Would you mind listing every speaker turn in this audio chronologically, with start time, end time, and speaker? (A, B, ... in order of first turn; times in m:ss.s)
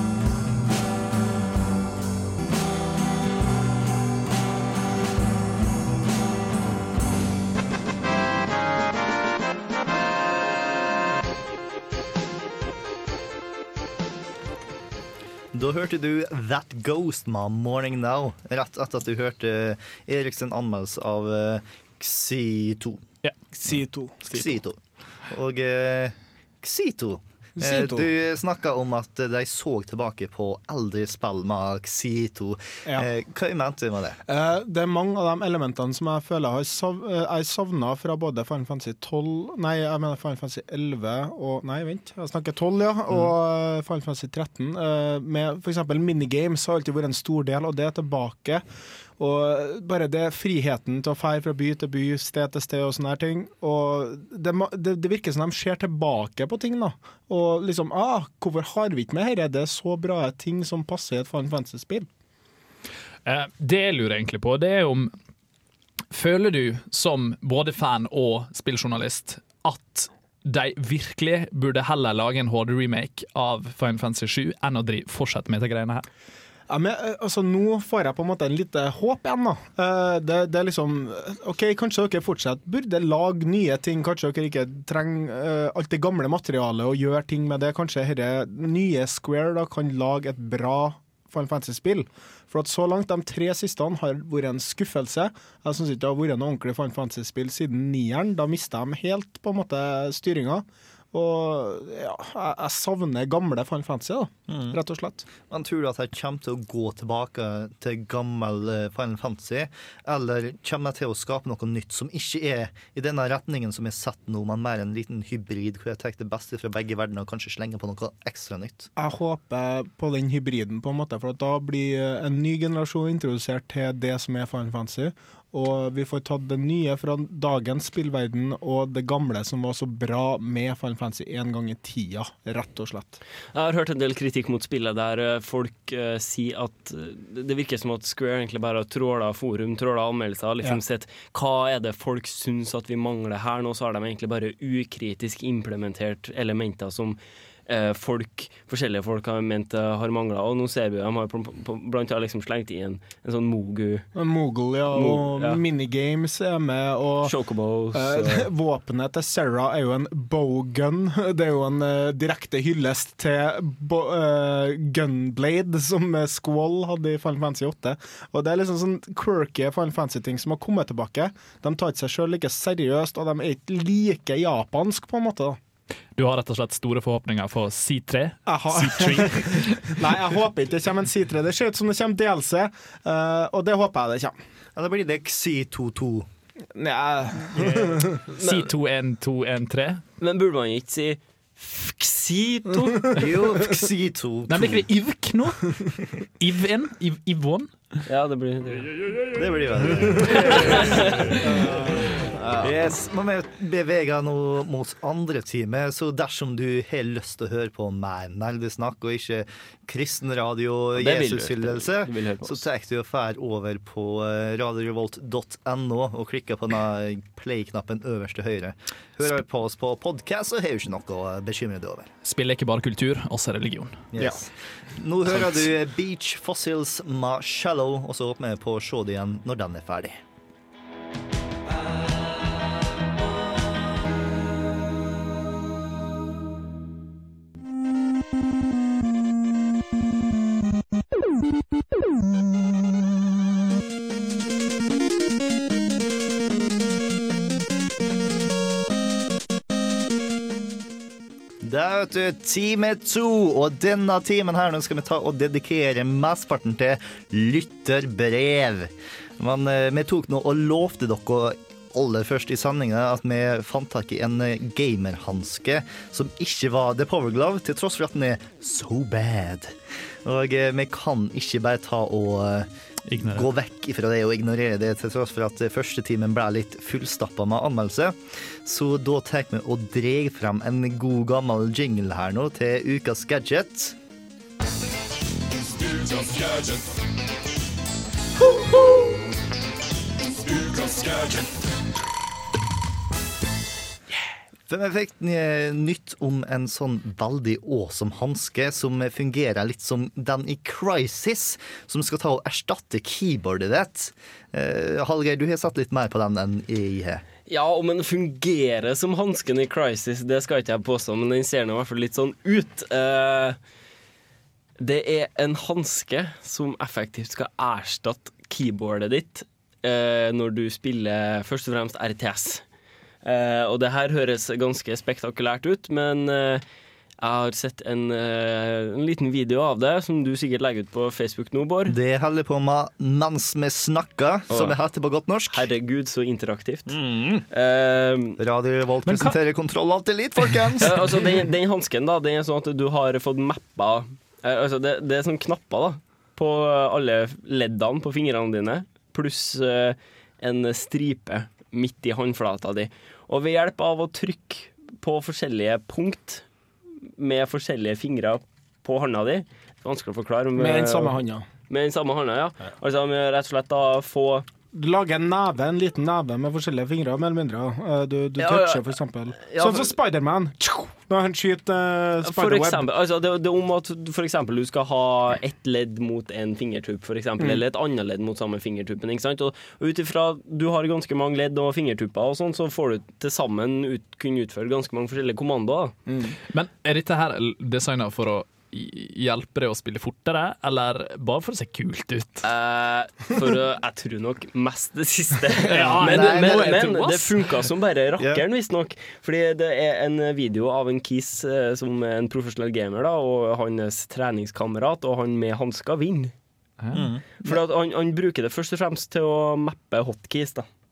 0:15.5-0:23.1 A
0:23.5-0:24.2 B
0:24.3-0:34.2 A
0:27.6-0:28.1 B
0:34.2-0:48.6 B
0:49.2-1:02.1 B
1:03.2-1:05.1 C
1:06.1-1:16.0 C
1:16.7-1:45.2 B
1:44.5-1:44.8 A
1:45.4-1:58.9 A
1:59.0-2:13.2 B
2:13.5-2:34.1 D
2:34.1-2:37.3 B
2:34.9-2:35.6 D
2:37.2-2:38.5 D
2:37.9-2:55.6 B
2:56.2-3:00.1 C
2:58.4-3:04.3 B
3:04.8-3:06.3 A
3:06.7-3:08.2 B
3:08.3-3:10.0 C
3:08.4-3:08.7 D
3:10.2-3:13.2 D
3:13.1-3:14.8 A
3:14.4-3:18.0 C
3:18.1-3:18.9 D
3:19.3-3:21.1 A
3:20.6-3:21.0 D
3:21.5-3:22.1 B
3:22.6-3:42.1 A
3:31.0-3:32.6 D
3:42.2-3:44.0 C
3:44.1-3:50.2 A
4:11.6-4:44.0 A
4:33.1-4:33.5 C
4:54.7-5:07.2 A
5:07.5-5:13.6 D
5:14.8-5:22.6 D
5:23.2-5:26.6 D
5:27.2-5:32.0 D
5:31.8-5:35.7 A
5:34.5-5:34.8 D
5:35.5-5:38.4 D
5:36.9-5:37.4 A
5:38.4-5:41.0 A
5:39.0-5:39.4 C
5:40.8-5:56.4 D
5:57.2-6:04.5 D
6:00.6-6:01.5 B
6:04.7-6:12.9 B
6:08.4-6:08.8 D
6:09.4-6:09.9 D
6:12.2-6:26.0 D
6:26.1-6:26.4 B
6:26.5-6:32.4 C
6:32.4-6:46.3 D
6:35.6-6:37.4 C
6:36.0-6:36.7 A
6:38.2-6:38.4 A
6:46.8-6:47.1 C
6:46.9-6:47.2 A
6:47.4-6:50.7 D